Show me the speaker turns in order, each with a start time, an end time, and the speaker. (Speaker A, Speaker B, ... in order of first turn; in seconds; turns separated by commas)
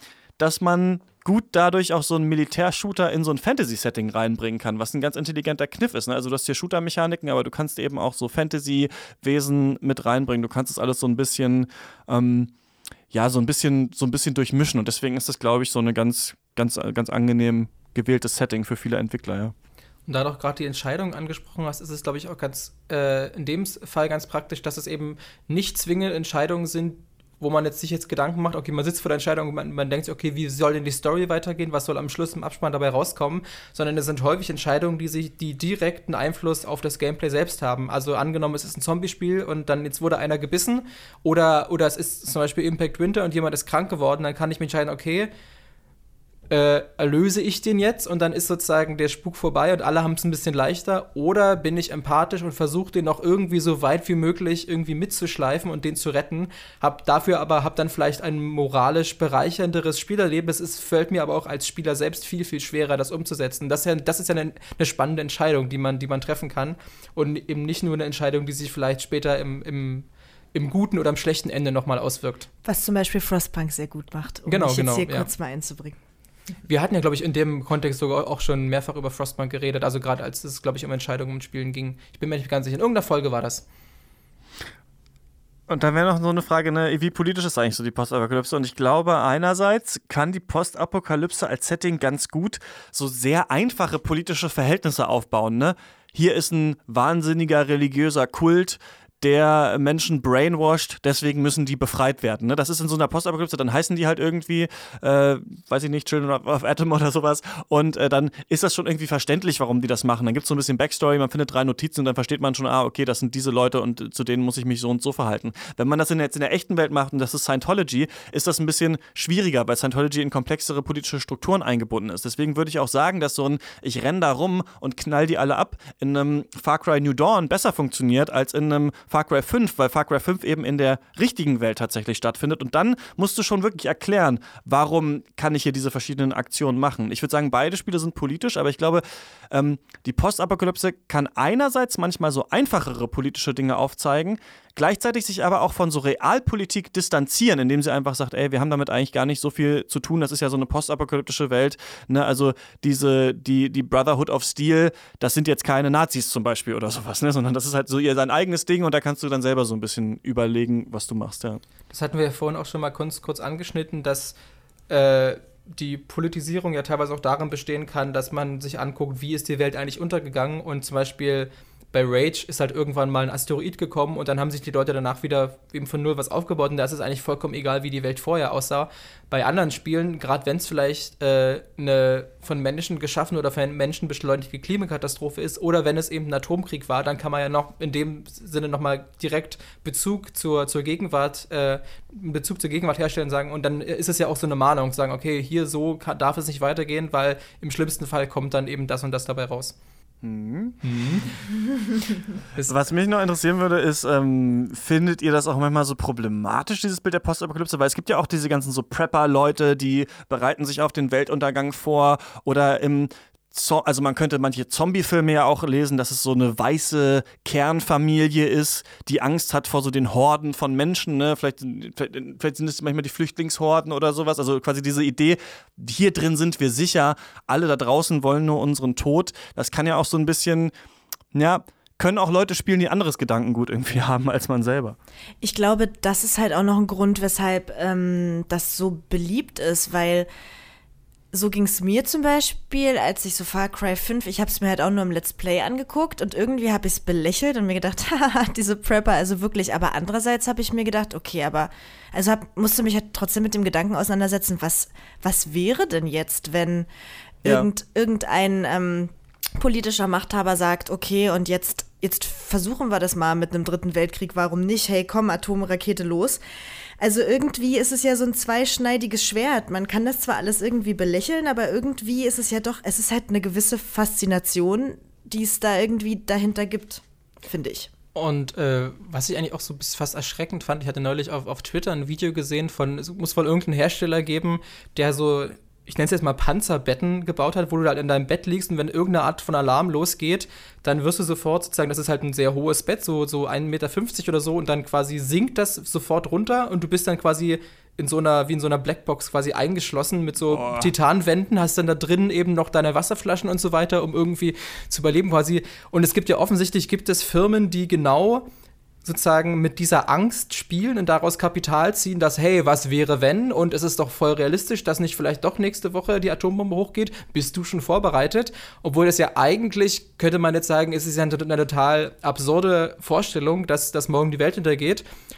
Speaker A: 0.4-12.5, Speaker A: 13.1-19.6, Speaker B: 20.1-45.3, Speaker B: 46.5-72.5, Speaker C: 72.7-76.0, Speaker B: 74.5-75.3, Speaker B: 76.7-83.7, Speaker A: 85.7-161.6, Speaker B: 161.9-164.4, Speaker B: 164.9-199.8, Speaker A: 200.2-200.8, Speaker B: 200.8-201.4, Speaker A: 202.6-230.7, Speaker A: 231.3-235.0, Speaker C: 235.4-240.3, Speaker C: 241.3-256.9, Speaker C: 257.4-266.4, Speaker C: 267.0-277.9, Speaker B: 278.1-308.5, Speaker A: 300.5-300.9, Speaker B: 309.0-325.1